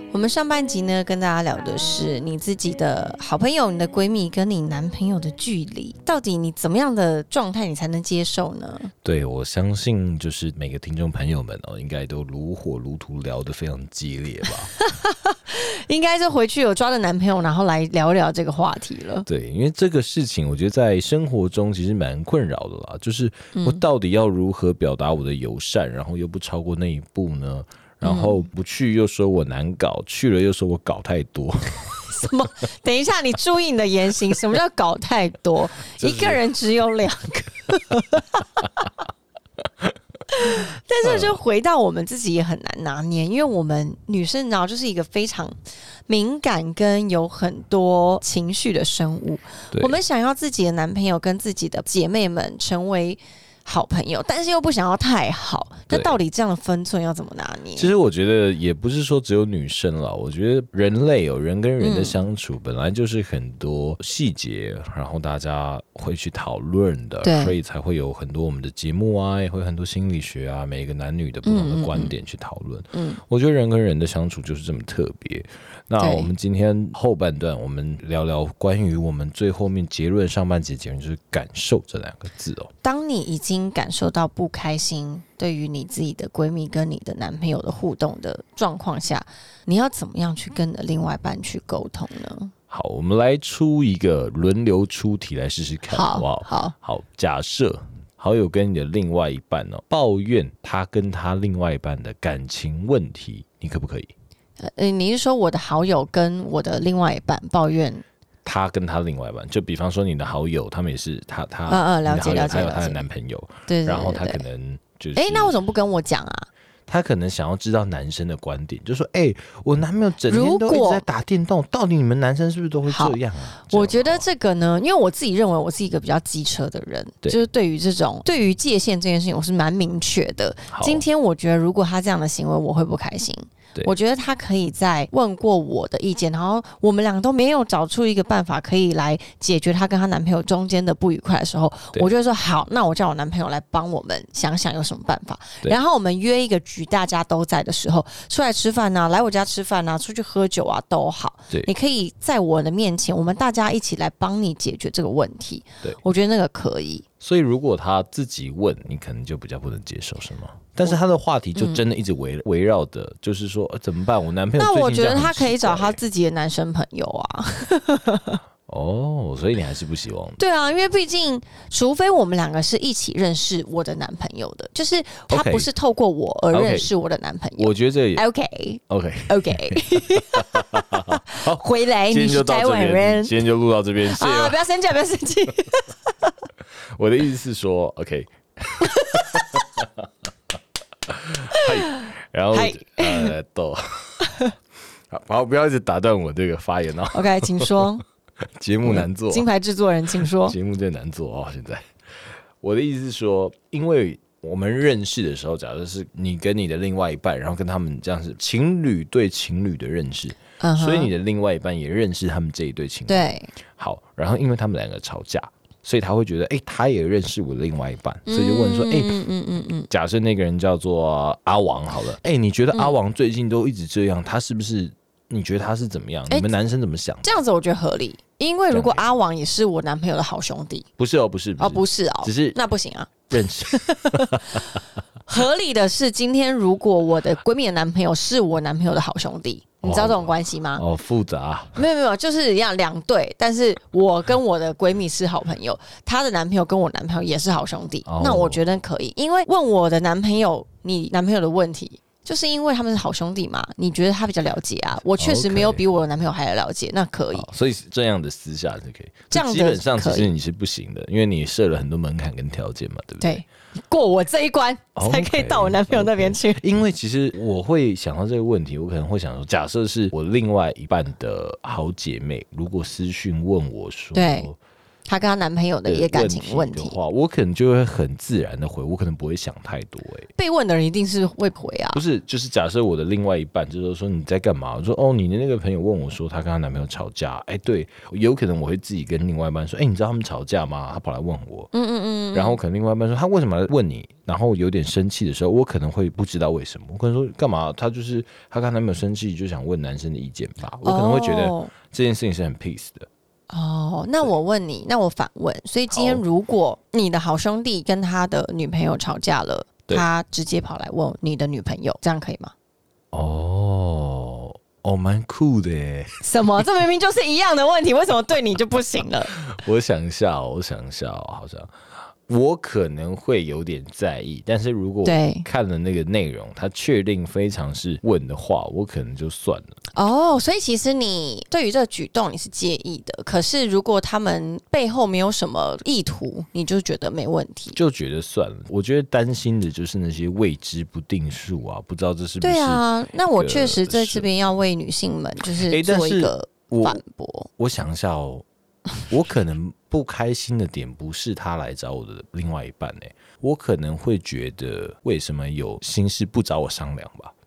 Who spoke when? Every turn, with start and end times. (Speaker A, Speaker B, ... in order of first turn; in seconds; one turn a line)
Speaker A: 0.1-8.9
Speaker B: 9.0-14.7
Speaker A: 14.7-19.3
Speaker B: 19.3-32.1
Speaker A: 23.5-23.8
Speaker A: 28.0-28.4
Speaker A: 32.1-38.7
Speaker B: 36.0-36.4
Speaker A: 40.3-45.5
Speaker B: 41.0-41.4
Speaker A: 46.1-57.9
Speaker B: 49.7-50.0
Speaker B: 55.9-56.2
Speaker B: 57.8-82.7
Speaker A: 61.8-62.2
Speaker A: 67.2-67.5
Speaker A: 71.4-72.1
Speaker A: 72.9-73.2
Speaker A: 76.0-76.3
Speaker A: 82.8-92.5
Speaker B: 92.7-104.1
Speaker A: 95.9-96.7
Speaker A: 104.6-108.0
Speaker B: 108.5-115.6
Speaker A: 111.7-113.0
Speaker A: 113.7-114.4
Speaker A: 115.2-116.5
Speaker B: 116.9-124.2
Speaker A: 120.3-121.0
Speaker A: 122.9-157.1
Speaker B: 130.7-131.0
Speaker B: 157.2-166.0
Speaker A: 161.6-161.8
Speaker A: 164.6-168.4
Speaker B: 168.7-170.4
Speaker A: 170.4-183.4
Speaker B: 175.3-175.7
Speaker B: 176.5-176.9
Speaker B: 177.6-178.2
Speaker B: 178.9-184.6
Speaker A: 184.1-186.1
Speaker B: 187.0-190.1
Speaker A: 188.8-189.6
Speaker B: 191.1-194.1
Speaker A: 191.5-193.3
Speaker B: 195.1-197.9
Speaker A: 197.1-198.0
Speaker B: 198.6-199.5
Speaker A: 198.8-200.6
Speaker B: 200.2-201.8
Speaker B: 202.6-219.2
Speaker A: 210.6-211.1
Speaker A: 213.1-213.5
Speaker A: 218.3-219.9
Speaker B: 219.9-227.3
Speaker A: 227.2-230.9
Speaker B: 228.7-229.1
Speaker B: 231.0-232.6
Speaker A: 231.6-240.8
Speaker B: 233.3-234.7
Speaker B: 239.8-241.8
Speaker A: 241.8-257.5
Speaker B: 248.1-248.6
Speaker B: 255.2-255.8
Speaker B: 257.4-263.4
Speaker A: 259.3-260.3
Speaker A: 263.2-266.6
Speaker B: 265.0-274.6
Speaker A: 274.1-274.5
Speaker A: 275.1-277.0
Speaker B: 275.9-280.3
Speaker A: 280.4-282.0
Speaker B: 281.9-291.7
Speaker A: 291.7-292.6
Speaker B: 292.3-303.1
Speaker A: 300.8-301.7
Speaker A: 303.5-312.5
Speaker B: 305.9-306.2
Speaker B: 313.1-316.6
Speaker A: 316.2-319.4
Speaker B: 319.4-321.7
Speaker B: 322.3-329.8
Speaker A: 325.1-325.5
Speaker A: 329.9-337.8
Speaker B: 337.8-342.8
Speaker A: 342.4-347.5
Speaker B: 343.4-344.3
Speaker B: 345.6-347.0
Speaker B: 347.6-348.4
Speaker B: 349.1-357.3